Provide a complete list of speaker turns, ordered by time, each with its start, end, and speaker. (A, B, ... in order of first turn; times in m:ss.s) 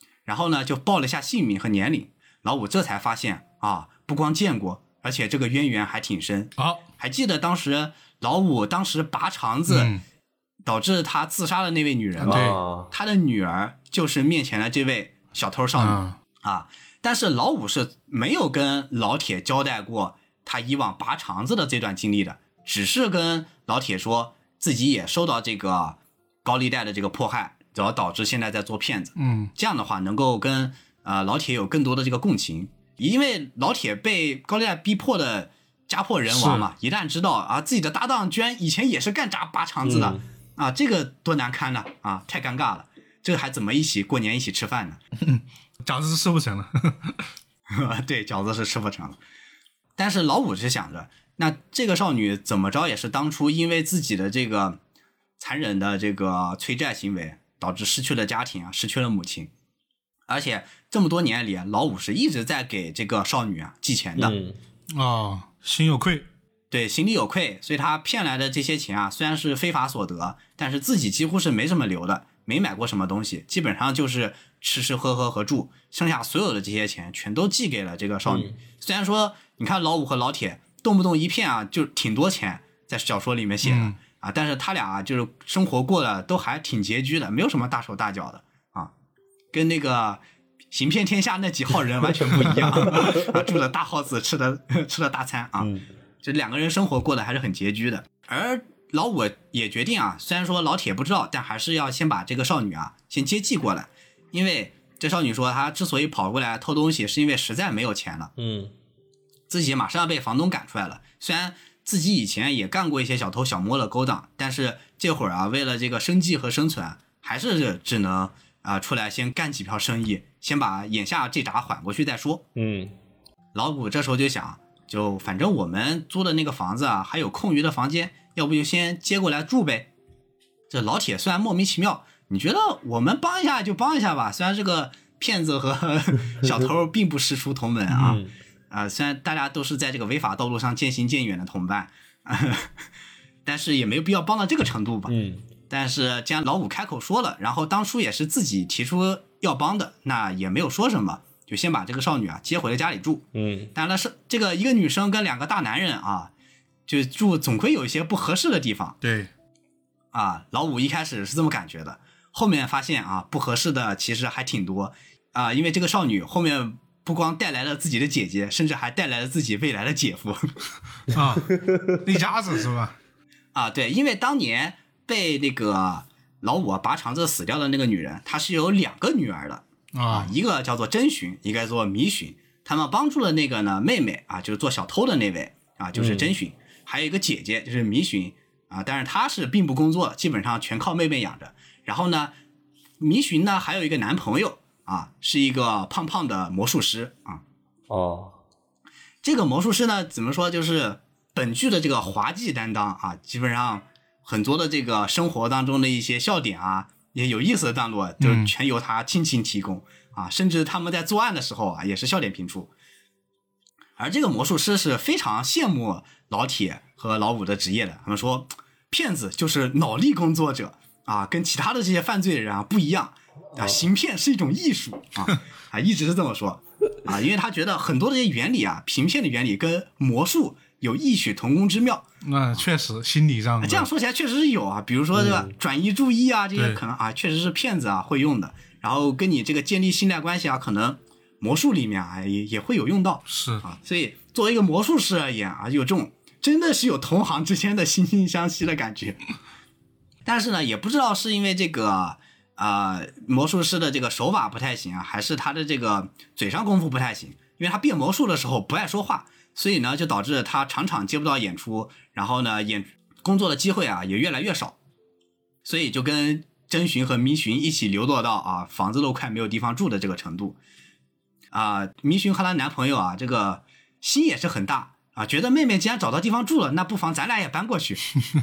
0:00.3-0:09.9 A
0:06.6-0:06.8 B
0:09.7-0:10.0 B
0:10.6-0:45.0 A
0:12.2-0:12.9 C
0:12.3-0:12.6 B
0:15.8-0:16.2 B
0:29.2-0:29.5 B
0:36.3-0:36.7 B
0:39.8-0:40.2 C
0:45.2-0:47.2 B
0:47.7-0:49.2 A
0:50.0-0:54.8 A
0:55.4-0:59.5 A
1:00.3-1:04.4 A
1:04.2-1:04.6 C
1:04.9-1:06.3 B
1:06.7-1:28.9 A
1:18.3-1:18.6 C
1:23.6-1:24.0 B
1:29.5-1:35.7 A
1:32.2-1:33.5 C
1:35.6-1:35.8 C
1:36.2-1:48.3 A
1:48.4-1:48.7 C
1:49.5-2:02.4 A
2:02.6-2:02.9 C
2:03.5-2:09.9 A
2:10.7-2:22.7 A
2:17.9-2:18.3 C
2:23.4-2:25.2 A
2:25.1-2:25.4 C
2:25.7-2:36.3 A
2:33.3-2:33.7 C
2:36.9-2:39.0 A
2:39.0-2:39.3 B
2:40.1-2:50.5 A
2:51.1-2:53.0 B
2:53.5-3:12.3 A
2:59.9-3:00.3 B
3:06.0-3:06.3 C
3:13.0-3:17.4 A
3:17.9-3:18.4 C
3:19.2-3:32.7 A
3:28.2-3:28.5 B
3:34.0-3:52.6 A
3:43.6-3:43.8 C
3:52.2-3:53.9 B
3:53.6-4:09.2 A
3:55.1-3:55.5 C
4:03.3-4:03.6 B
4:10.2-4:24.8 A
4:25.6-4:30.6 A
4:31.5-4:38.2 A